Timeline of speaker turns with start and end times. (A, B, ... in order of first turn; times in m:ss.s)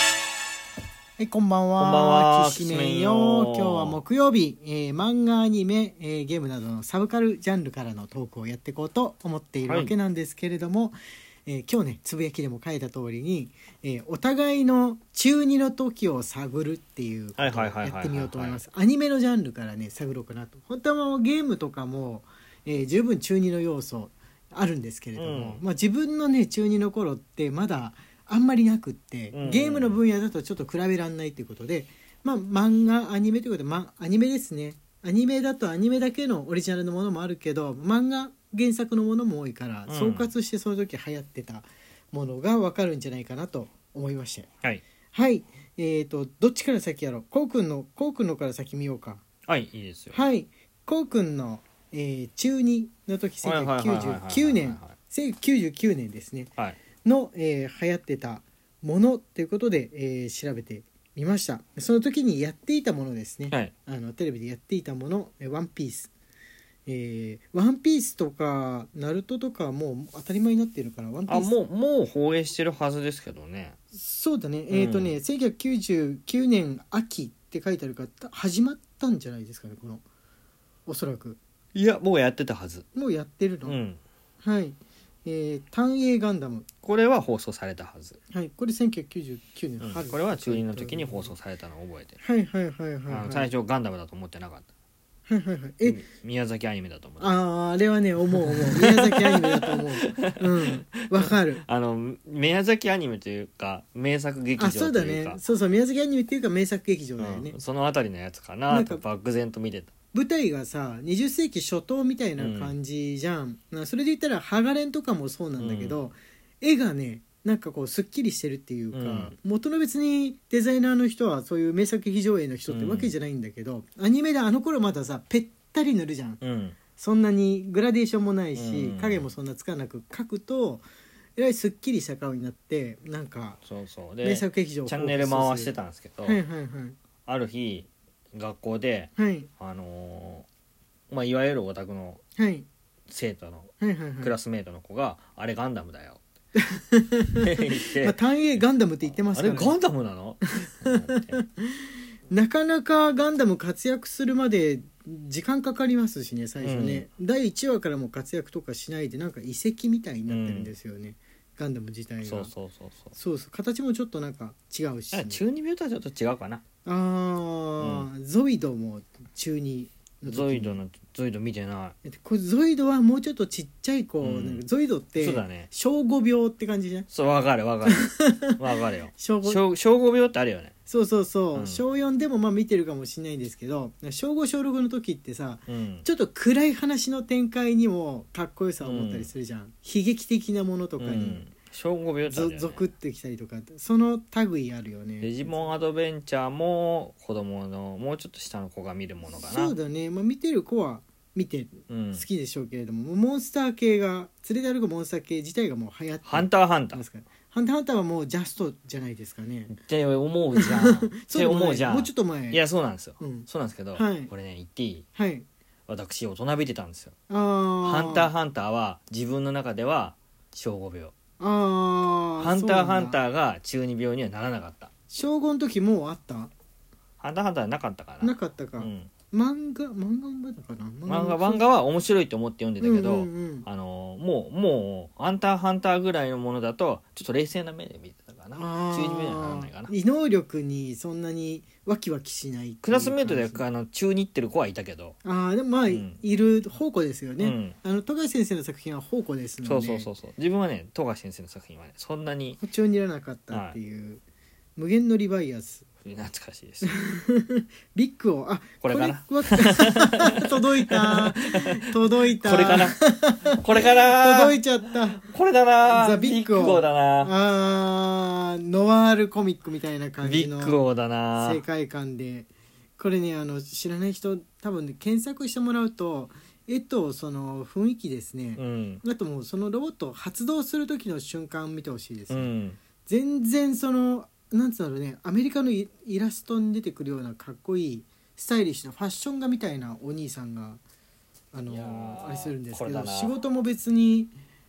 0:01.2-0:44.5 A
0:01.8-0:04.0 B
0:09.6-0:09.9 B
0:17.4-0:18.6 B
0:25.2-0:25.6 B
0:29.3-0:30.0 B
0:39.9-0:40.3 B
0:45.1-0:49.2 A
0:49.5-0:50.2 B
0:50.1-0:56.5 A
0:53.4-0:54.9 B
0:57.0-1:06.1 A
1:06.8-1:11.5 A
1:11.3-1:13.8 B
1:13.9-1:20.0 A
1:14.7-1:15.2 B
1:20.8-1:21.4 A
1:21.7-1:22.8 B
1:22.9-1:23.8 A
1:23.6-1:24.0 B
1:24.4-1:26.7 A
1:26.8-1:28.2 B
1:28.3-1:31.3 A
1:29.8-1:32.2 B
1:32.2-1:33.5 A
1:33.1-1:34.7 B
1:35.3-1:36.0 A
1:35.8-1:37.3 B
1:37.2-1:41.6 A
1:38.3-1:45.4 B
1:44.6-1:47.6 A
1:47.2-1:49.9 B
1:48.7-1:49.0 A
1:50.1-2:06.4 A
1:52.4-1:52.8 B
1:55.6-1:56.0 B
1:58.9-1:59.3 B
2:02.7-2:03.1 B
2:06.4-2:06.8 B
2:07.0-2:13.6 A
2:08.6-2:09.2 B
2:13.6-2:16.4 B
2:14.2-2:17.0 A
2:17.2-2:20.5 B
2:19.2-2:19.5 A
2:21.1-2:22.2 B
2:22.4-2:22.7 A
2:23.1-2:26.2 B
2:23.8-2:24.3 A
2:26.6-2:29.8 A
2:27.4-2:28.2 B
2:29.3-2:31.4 B
2:30.6-2:42.5 A
2:36.6-2:37.1 B
2:40.3-2:40.7 B
2:42.2-2:43.1 B
2:43.1-2:45.4 A
2:45.1-2:46.6 B
2:46.8-2:50.8 A
2:47.8-2:48.1 B
2:50.2-2:52.0 B
2:52.0-2:57.1 A
2:54.2-2:54.6 B
2:55.2-2:55.7 B
2:57.1-3:00.7 B
2:57.9-2:58.6 A
2:59.2-2:59.6 A
3:00.9-3:11.4 A
3:01.5-3:01.8 B
3:05.7-3:06.1 B
3:08.8-3:09.3 B
3:11.0-3:12.9 B
3:12.2-3:15.7 A
3:15.2-3:19.8 B
3:19.3-3:29.8 A
3:21.9-3:22.2 B
3:26.2-3:27.0 B
3:29.7-3:35.1 B
3:30.6-3:32.6 A
3:33.2-3:34.3 A
3:35.2-3:35.5 A
3:35.9-3:37.2 B
3:37.3-3:38.3 A
3:37.8-3:41.1 B
3:41.4-3:43.2 A
3:42.4-3:44.9 B
3:45.1-3:46.5 A
3:47.2-3:49.1 B
3:48.2-3:51.6 A
3:51.1-3:59.9 B
3:52.8-3:53.7 A
3:58.5-4:03.6 A
4:02.8-4:05.2 B
4:05.2-4:10.1 A
4:05.9-4:06.2 B
4:07.4-4:07.8 B
4:09.6-4:12.6 B
4:12.6-4:14.2 A
4:13.5-4:13.8 B
4:14.8-4:15.8 A
4:16.0-4:16.9 B
4:16.8-4:25.2 A
4:18.8-4:24.6 B
4:25.2-4:27.3 B
4:25.9-4:30.8 A
4:30.2-4:31.6 B
4:31.4-4:42.5 A
4:38.6-4:39.0 B
4:42.3-4:42.8 B
4:43.1-4:50.8 A
4:51.5-4:54.3 A
4:51.7-4:53.4 B